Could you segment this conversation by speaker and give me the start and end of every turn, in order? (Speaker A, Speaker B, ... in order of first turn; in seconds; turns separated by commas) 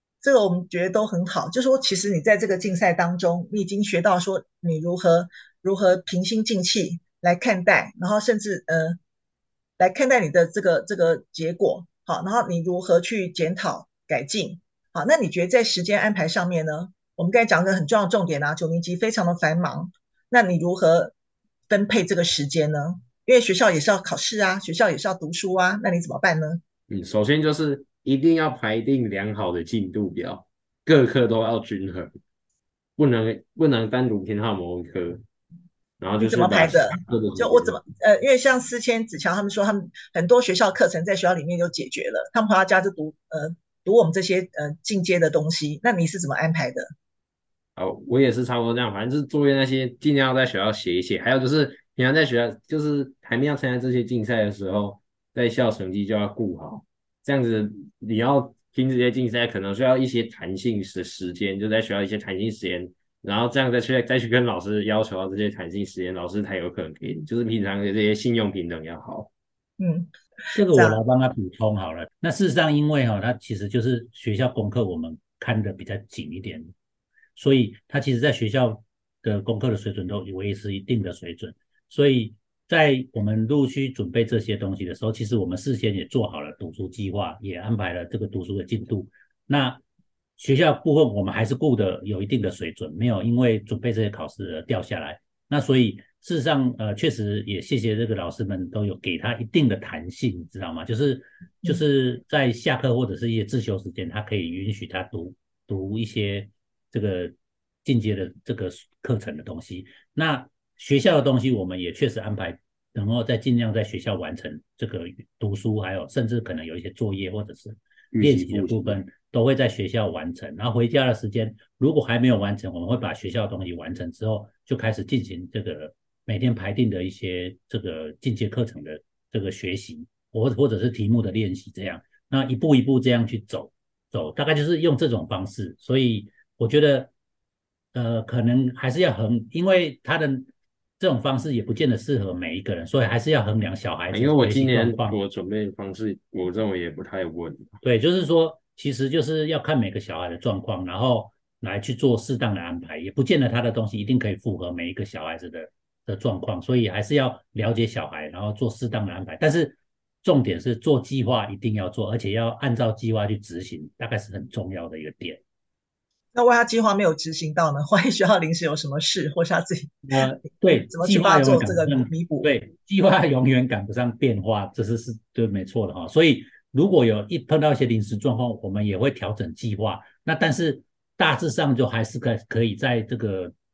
Speaker A: 0.2-9.0, Speaker A: 9.8-21.1, Speaker A: 21.7-26.6, Speaker B: 26.9-32.1, Speaker B: 33.0-35.2, Speaker B: 36.0-37.8, Speaker A: 36.2-46.9, Speaker B: 47.8-69.3, Speaker A: 69.8-71.0, Speaker C: 70.5-76.7, Speaker C: 77.3-89.8, Speaker C: 90.4-107.3, Speaker C: 107.8-137.1, Speaker B: 118.1-119.0, Speaker C: 137.9-145.2, Speaker B: 144.1-147.8, Speaker C: 147.8-165.4, Speaker A: 166.3-172.5, Speaker C: 170.1-183.5